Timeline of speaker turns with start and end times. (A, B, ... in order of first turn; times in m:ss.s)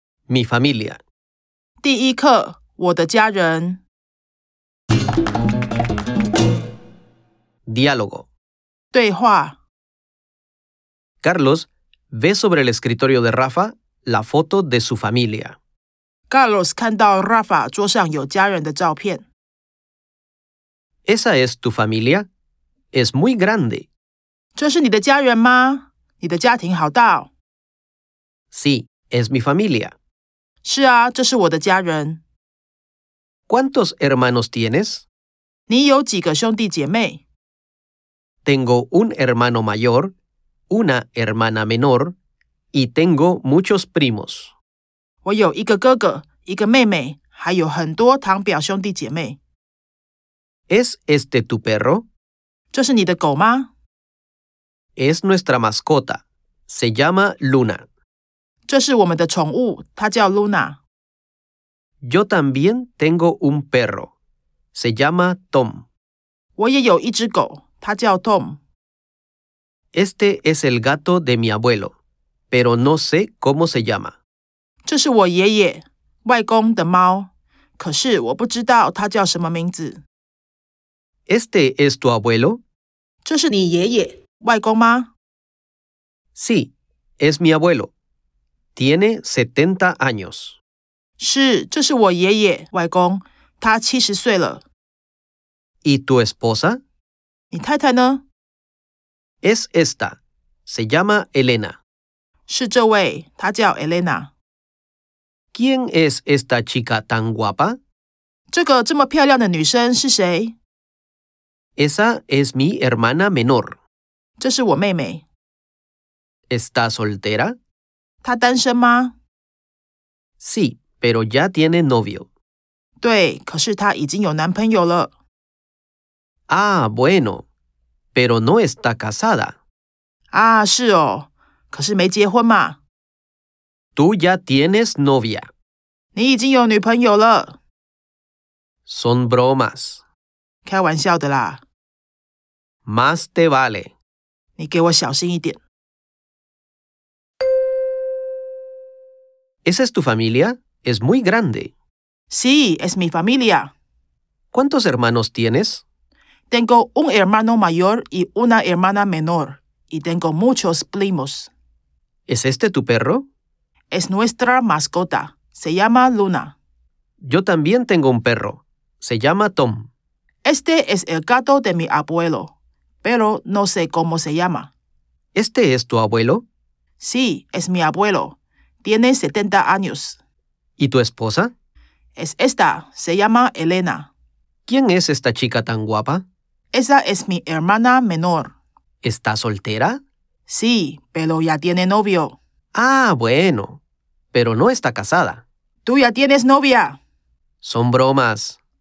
0:00.3-0:01.0 A
0:01.8-0:03.8 B
0:07.7-0:08.3 A
0:08.9-0:09.6 B
0:11.2-0:15.6 A
0:16.3-0:19.2 B
0:21.0-0:22.3 A
0:22.9-0:23.9 A
0:24.5-0:27.3 B
0:28.5-0:29.9 A
0:30.6-0:32.2 B
0:33.5-0:35.0 A
0:35.7-0:37.2 B
0:38.4-0:40.1 A
0:40.7-0:42.1 A
0:42.7-0:44.5 A
0:45.2-0:49.4 B
0:50.7-0:52.0 A
0:52.7-0:53.7 B
0:55.0-0:57.8 A
0:58.7-1:00.8 B
1:02.0-1:04.1 A
1:04.7-1:05.8 A
1:06.6-1:08.6 B
1:09.9-1:11.9 A
1:12.5-1:14.2 A
1:14.8-1:20.0 B
1:21.3-1:22.6 A
1:23.2-1:25.1 B
1:26.4-1:27.9 A
1:28.8-1:30.6 A
1:31.2-1:34.6 B
1:35.8-1:36.8 A
1:37.5-1:38.2 B
1:39.4-1:41.8 A
1:42.5-1:44.3 B
1:45.5-1:47.8 A
1:48.5-1:50.5 B
1:51.8-1:53.8 A
1:54.4-1:55.2 B
1:56.5-1:57.6 A
1:58.2-1:59.1 B
2:00.4-2:02.3 A
2:03.0-2:05.1 B
2:06.5-2:07.4 A
2:08.1-2:09.6 A
2:10.3-2:12.8 B
2:14.0-2:15.5 A
2:16.1-2:17.6 B
2:18.8-2:20.0 A
2:20.6-2:21.6 B
2:22.8-2:23.9 A
2:24.6-2:25.6 B
2:29.6-2:31.7 A
2:32.3-2:33.7 B
2:34.5-2:35.8 A
2:36.5-2:41.5 B
2:42.3-2:43.2 A
2:43.9-2:46.6 B
2:47.2-2:49.9 A
2:50.4-2:54.7 B
2:55.3-2:56.4 A
2:57.0-3:00.2 B
3:00.8-3:01.5 A
3:02.2-3:04.1 B
3:04.6-3:06.2 A
3:06.7-3:08.5 B
3:09.0-3:10.0 A
3:10.5-3:12.4 B
3:12.7-3:13.8 A
3:14.3-3:15.4 A
3:15.8-3:17.0 B
3:17.6-3:18.6 A